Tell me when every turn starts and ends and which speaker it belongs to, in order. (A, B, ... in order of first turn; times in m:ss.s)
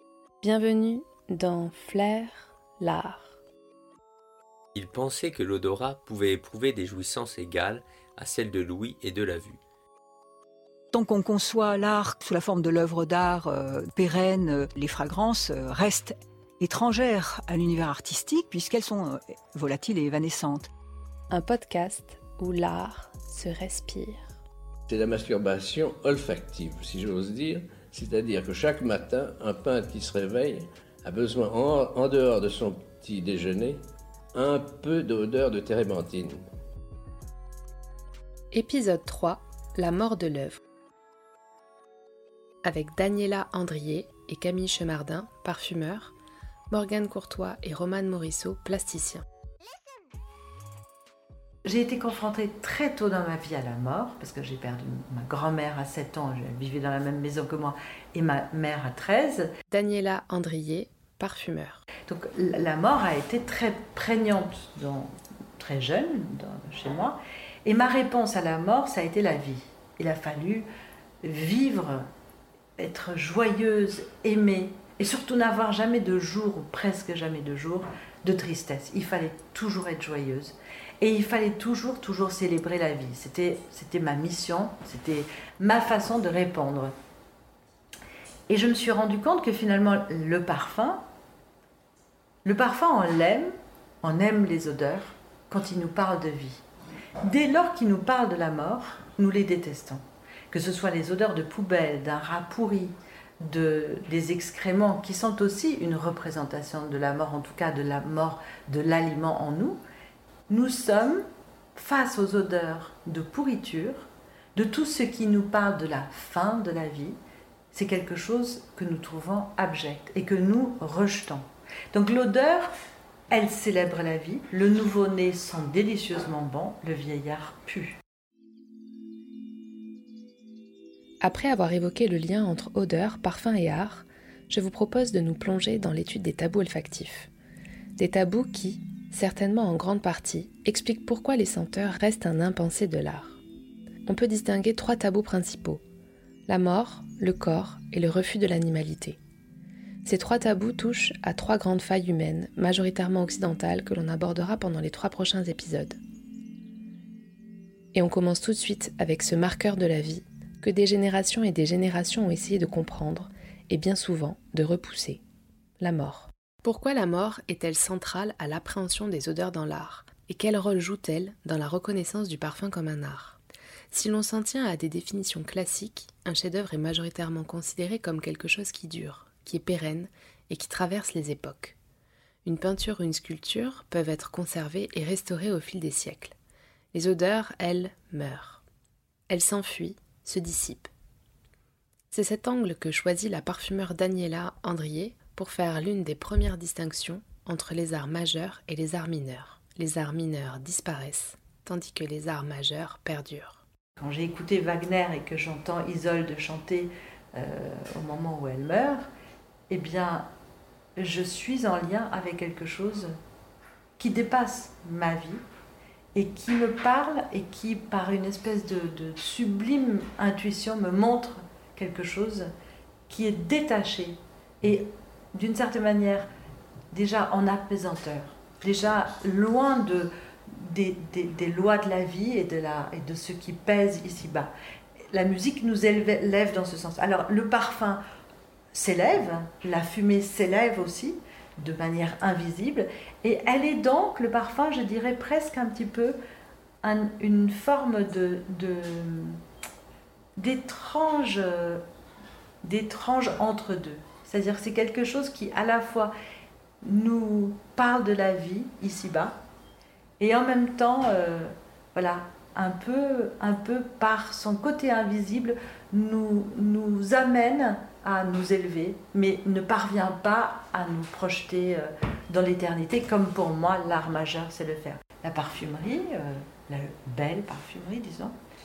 0:00.4-0:03.4 A
0:04.7-0:09.6 B
0:10.9-0:20.7 C
0:21.3-0:24.3 A
0:24.9-0:33.8 D
0:34.3-0:36.4 D
0:38.5-0:40.6 A
0:42.6-0:46.1 A
0:46.7-0:49.2 A
0:51.6-0:59.5 E
0:59.7-1:01.8 A
1:02.1-1:10.7 E
1:11.2-1:12.1 E
1:12.8-1:26.9 E
1:28.5-1:31.0 E
1:32.4-1:36.6 E
1:37.2-1:49.8 E
1:50.5-1:51.2 E
1:51.8-1:57.2 E
1:57.7-2:02.7 E
2:03.3-2:08.0 E
2:11.2-2:17.3 A
2:18.0-2:23.4 A
2:24.1-2:25.8 A
2:26.5-2:29.2 A
2:30.0-2:36.0 A
2:37.9-2:45.2 A
2:45.8-2:53.4 A
2:53.9-3:01.8 A
3:02.4-3:06.4 A
3:06.9-3:08.6 A
3:09.3-3:10.9 A
3:12.1-3:23.6 A
3:24.0-3:29.1 E
3:29.7-3:30.3 E
3:31.0-3:33.1 E
3:34.0-3:35.4 E
3:36.2-3:42.5 E
3:43.1-3:46.3 E
3:46.9-3:54.5 E
3:55.1-3:58.0 E
3:58.7-4:06.2 E
4:06.8-4:09.4 E
4:10.4-4:11.8 E
4:12.6-4:16.1 E
4:16.8-4:19.4 E
4:20.2-4:38.4 E